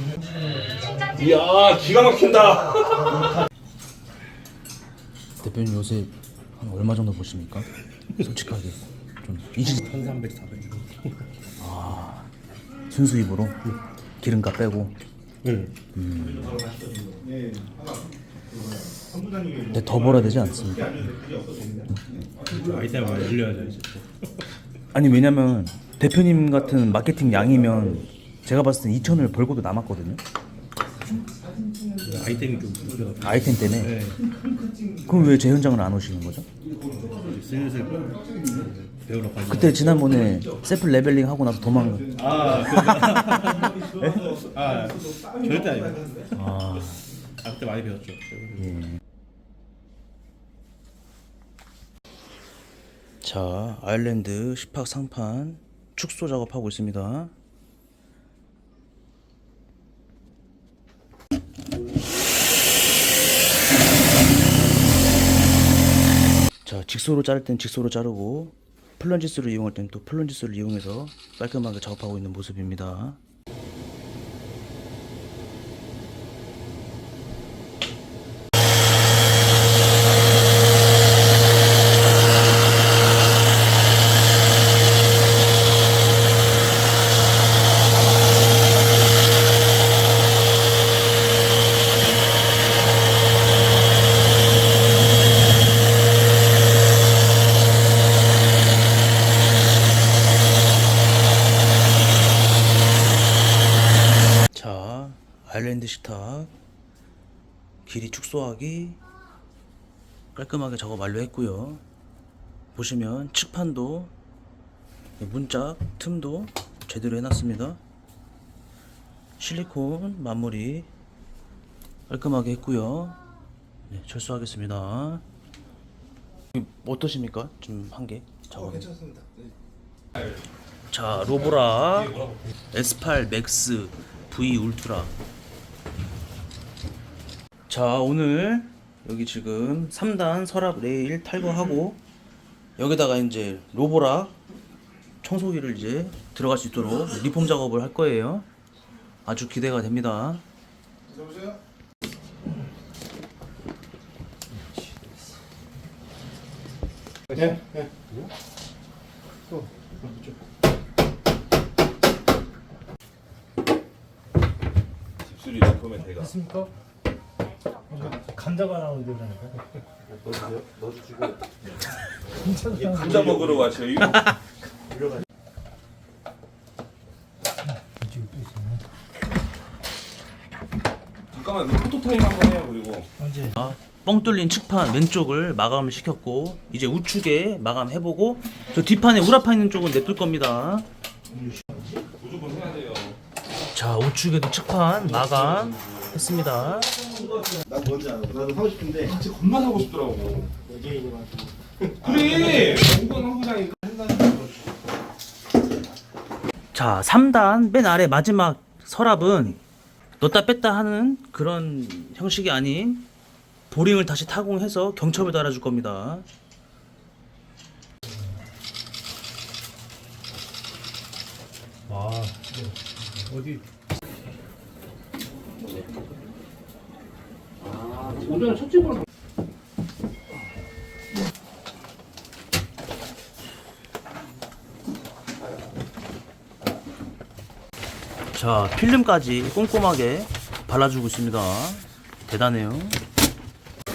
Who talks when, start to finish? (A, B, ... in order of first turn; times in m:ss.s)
0:01.0-0:03.2 A
0:05.4-0:09.8 B
0:09.6-0:11.2 C
0:11.6-0:12.3 B
0:12.9-0:14.9 B
0:15.4-0:15.7 C
0:15.9-0:16.6 B
0:16.5-0:18.0 D
0:18.6-0:22.3 D
0:19.7-0:21.0 B
0:22.4-0:24.4 C
0:24.9-0:30.2 B
0:32.0-0:34.2 C
0:33.2-0:34.0 B
0:35.0-0:36.4 B
0:36.9-0:40.2 C
0:38.1-0:38.5 D
0:39.5-0:44.4 B
0:42.1-0:46.0 C
0:42.4-0:42.8 D
0:45.1-0:45.5 D
0:46.3-0:47.0 B
0:47.4-0:48.8 C
0:48.7-0:48.9 B
0:53.2-0:57.3 B
1:06.6-1:13.2 B
1:44.5-1:46.5 B
1:47.8-1:49.0 B
1:50.3-1:51.8 B
1:52.7-1:54.1 B
1:55.2-1:57.8 B
1:59.4-2:00.9 B
2:02.1-2:03.2 B
2:03.9-2:05.2 B
2:06.5-2:08.9 B
2:08.9-2:09.3 D
2:10.9-2:12.2 B
2:12.7-2:15.1 B
2:17.7-2:22.0 B
2:22.8-2:24.3 B
2:25.2-2:28.5 B
2:29.2-2:30.4 B
2:31.2-2:31.5 D
2:45.2-2:46.4 A
2:46.4-2:46.7 E
2:48.1-2:49.6 E
2:51.0-2:51.3 C
2:52.5-2:52.8 E
2:52.8-2:54.3 A
2:58.0-2:58.8 E
3:01.3-3:03.1 A
3:03.3-3:10.8 B
3:12.1-3:13.2 A
3:13.7-3:17.0 B
3:15.2-3:15.9 A
3:17.6-3:19.0 D
3:19.0-3:20.5 A
3:20.7-3:21.5 D
3:22.0-3:24.3 A
3:26.7-3:29.6 B
3:30.2-3:33.1 B
3:33.7-3:36.2 B
3:41.9-3:42.3 C
3:43.3-3:43.6 C
3:48.0-3:49.0 C
3:58.3-4:03.0 B